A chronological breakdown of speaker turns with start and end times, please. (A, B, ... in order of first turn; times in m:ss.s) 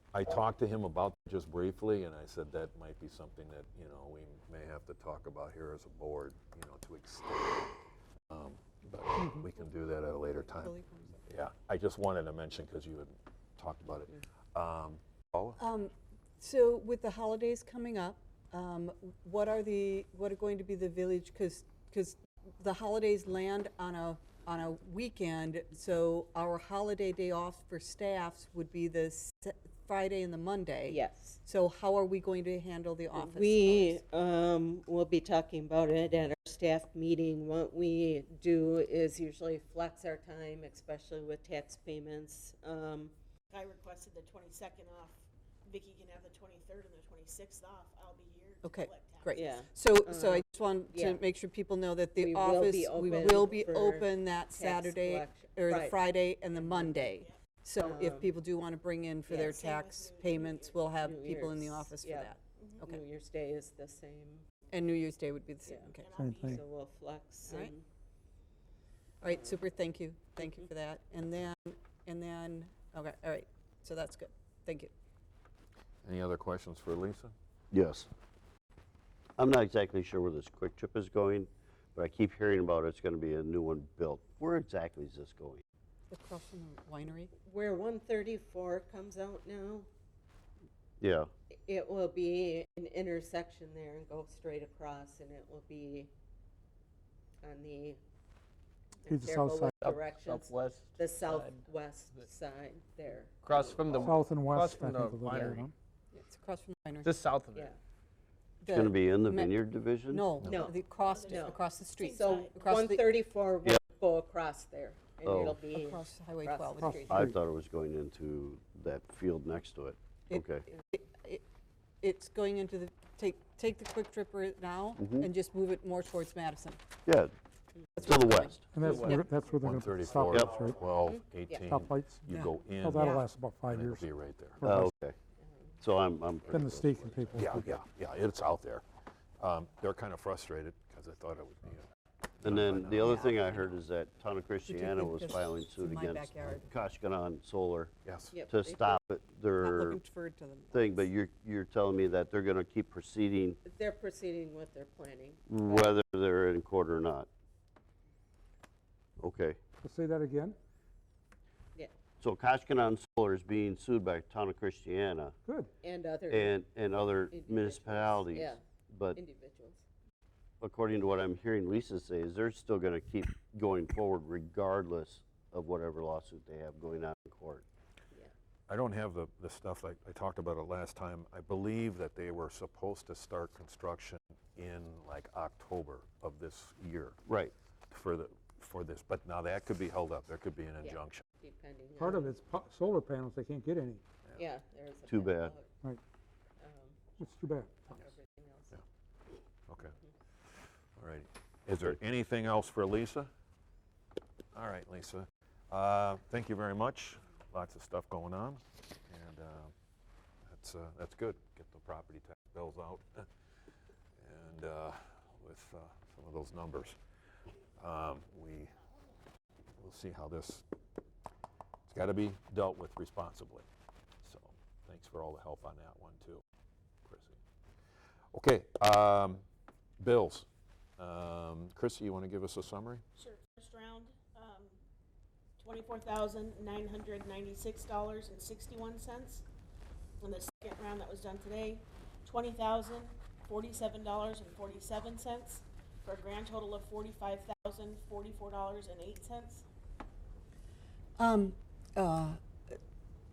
0:00.1-0:07.8 A
0:08.3-0:10.7 A
0:10.4-0:11.2 B
0:11.3-0:15.6 A
0:15.6-0:34.0 B
0:30.9-0:31.4 C
0:33.1-0:43.1 C
0:43.5-0:49.7 D
0:48.6-1:03.0 B
0:49.3-0:51.2 C
0:52.2-0:57.0 C
0:57.8-0:58.4 C
0:59.3-0:59.6 C
0:59.5-1:01.0 D
1:01.0-1:04.4 C
1:04.7-1:06.1 B
1:05.7-1:05.9 C
1:06.0-1:06.6 D
1:06.2-1:06.6 E
1:06.4-1:07.8 C
1:07.5-1:07.7 B
1:09.2-1:14.9 B
1:09.3-1:09.6 C
1:16.0-1:17.3 A
1:17.7-1:18.1 F
1:19.4-1:25.6 F
1:26.1-1:27.3 B
1:27.4-1:29.9 C
1:31.0-1:31.3 F
1:31.5-1:36.1 C
1:37.4-1:38.0 C
1:39.0-1:44.4 C
1:39.1-1:39.8 E
1:39.8-1:41.6 G
1:43.4-1:45.6 G
1:44.0-1:45.7 E
1:46.1-1:47.1 B
1:47.1-1:47.6 G
1:47.5-1:47.8 C
1:48.6-1:49.5 B
1:48.7-1:50.3 F
1:50.1-1:53.1 B
1:50.4-1:50.7 A
1:50.4-1:57.2 C
1:51.0-1:52.6 D
1:55.2-1:55.6 F
1:55.7-1:57.1 B
1:56.8-1:57.3 E
1:57.1-2:00.7 F
2:00.3-2:01.4 B
2:02.0-2:06.8 B
2:05.0-2:05.3 F
2:07.1-2:07.3 F
2:08.0-2:09.2 B
2:08.0-2:08.7 F
2:08.7-2:10.8 E
2:08.9-2:14.6 A
2:11.1-2:11.7 C
2:11.6-2:14.1 E
2:12.3-2:13.2 B
2:14.6-2:14.9 E
2:14.6-2:15.2 F
2:15.8-2:17.4 F
2:16.5-2:17.7 E
2:17.4-2:18.8 A
2:19.4-2:21.8 A
2:22.4-2:23.2 A
2:22.4-2:27.9 F
2:23.0-2:23.8 B
2:24.7-2:26.7 B
2:28.0-2:28.3 A
2:28.3-2:29.0 C
2:28.5-2:30.0 F
2:29.6-2:31.1 B
2:30.7-2:33.6 F
2:33.6-2:36.0 C
2:35.5-2:37.3 F
2:39.2-2:39.6 F
2:39.8-2:40.6 E
2:42.2-2:45.4 F
2:45.8-2:48.6 C
2:46.3-2:49.2 F
2:49.2-2:49.8 C
2:50.6-2:57.6 F
2:58.7-3:07.2 A
3:07.3-3:07.5 F
3:07.9-3:11.2 A
3:10.8-3:12.4 C
3:12.0-3:14.0 E
3:14.4-3:15.7 C
3:15.1-3:15.6 F
3:16.6-3:18.8 C
3:17.2-3:17.8 E
3:19.7-3:20.0 A
3:21.0-3:23.3 A
3:24.5-3:29.7 A
3:30.5-3:33.3 A
3:34.2-3:37.0 A
3:37.8-3:38.8 A
3:39.8-3:40.6 A
3:41.9-3:43.7 A
3:44.2-3:46.4 A
3:47.0-3:47.4 A
3:48.3-3:49.4 A
3:50.0-3:50.5 A
3:51.0-3:53.0 A
3:53.2-3:54.8 D
3:55.6-3:59.4 D
4:00.2-4:09.6 D
4:11.2-4:12.8 B